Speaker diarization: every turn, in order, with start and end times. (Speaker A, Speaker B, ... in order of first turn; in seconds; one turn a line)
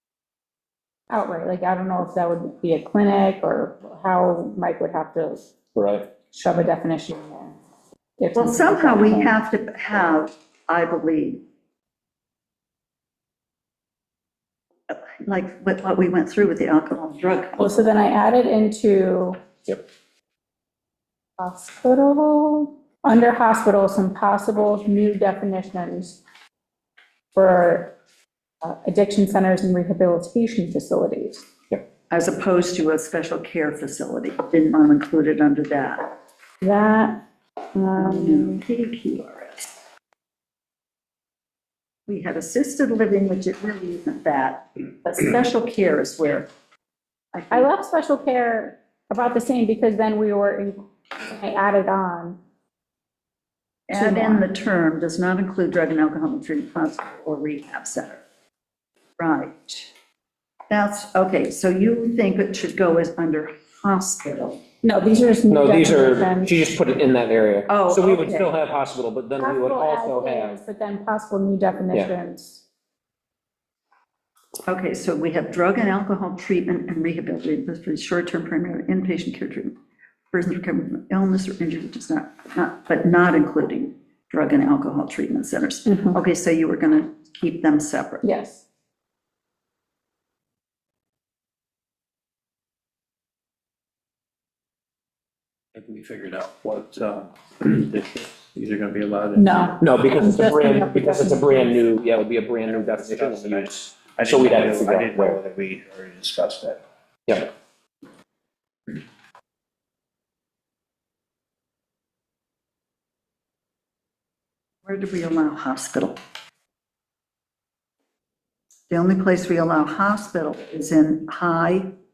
Speaker A: 1.1-5.4
Speaker B: 5.8-6.1
Speaker A: 6.3-7.6
Speaker A: 8.2-9.4
Speaker C: 8.3-11.4
Speaker C: 14.9-17.8
Speaker A: 17.6-19.4
Speaker A: 21.4-26.2
Speaker A: 27.3-27.9
Speaker A: 28.6-31.5
Speaker C: 32.1-36.1
Speaker A: 36.6-37.2
Speaker A: 37.7-38.6
Speaker C: 38.0-39.7
Speaker C: 42.1-46.5
Speaker C: 47.3-47.7
Speaker A: 47.5-52.4
Speaker C: 53.9-58.2
Speaker A: 53.9-54.5
Speaker C: 59.2-59.9
Speaker C: 60.7-64.6
Speaker A: 64.8-66.5
Speaker B: 65.5-70.6
Speaker C: 67.7-68.5
Speaker A: 69.4-72.6
Speaker C: 74.7-79.8
Speaker C: 80.3-88.2
Speaker A: 85.9-86.2
Speaker A: 88.2-88.6
Speaker D: 95.8-99.6
Speaker A: 99.3-101.9
Speaker B: 99.8-105.4
Speaker D: 102.7-106.8
Speaker B: 107.3-107.5
Speaker C: 114.8-116.2
Speaker C: 118.9-121.9